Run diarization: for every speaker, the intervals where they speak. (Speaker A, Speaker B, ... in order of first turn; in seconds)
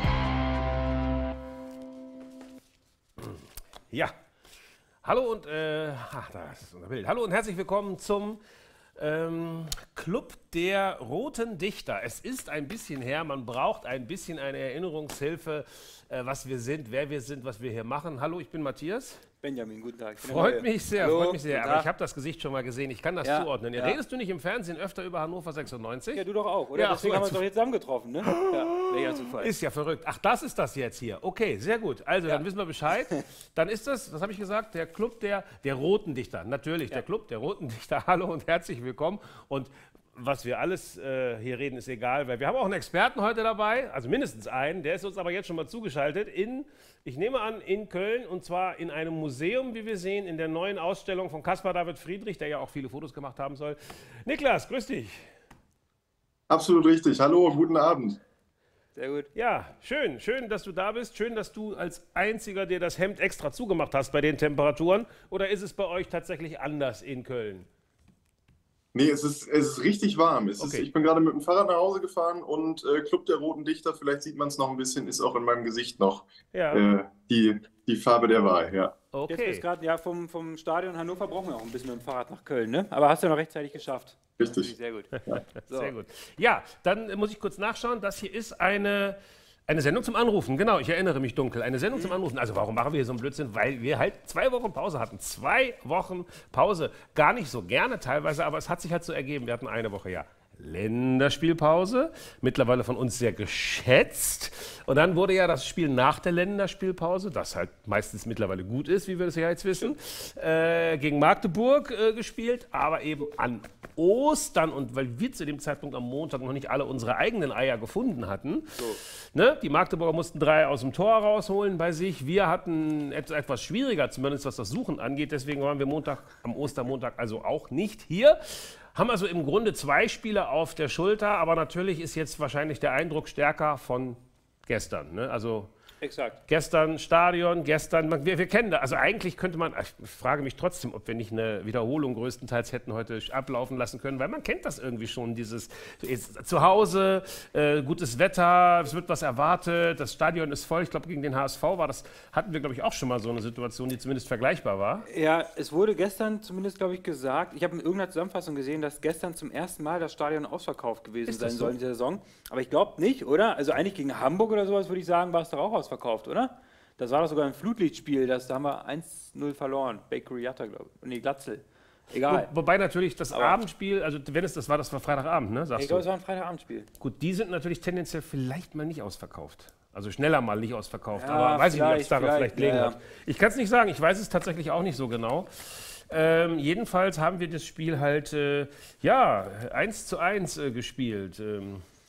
Speaker A: 3.2-4.1, 5.0-8.4, 9.0-19.2, 20.2-27.4, 28.2-55.3, 59.4-67.7, 70.6-70.9, 76.5-76.8, 79.1-79.6, 85.7-135.7, 136.5-155.1, 161.3-161.8, 172.3-176.1, 177.0-191.8
Speaker B: 19.4-21.9, 23.2-24.0, 26.1-29.5, 59.0-59.3, 79.3-85.1, 85.7-85.9, 118.8-119.0, 136.0-136.4, 155.1-172.5, 175.8-176.9, 181.2-183.0
Speaker C: 56.5-58.2, 68.9-79.0, 84.4-84.7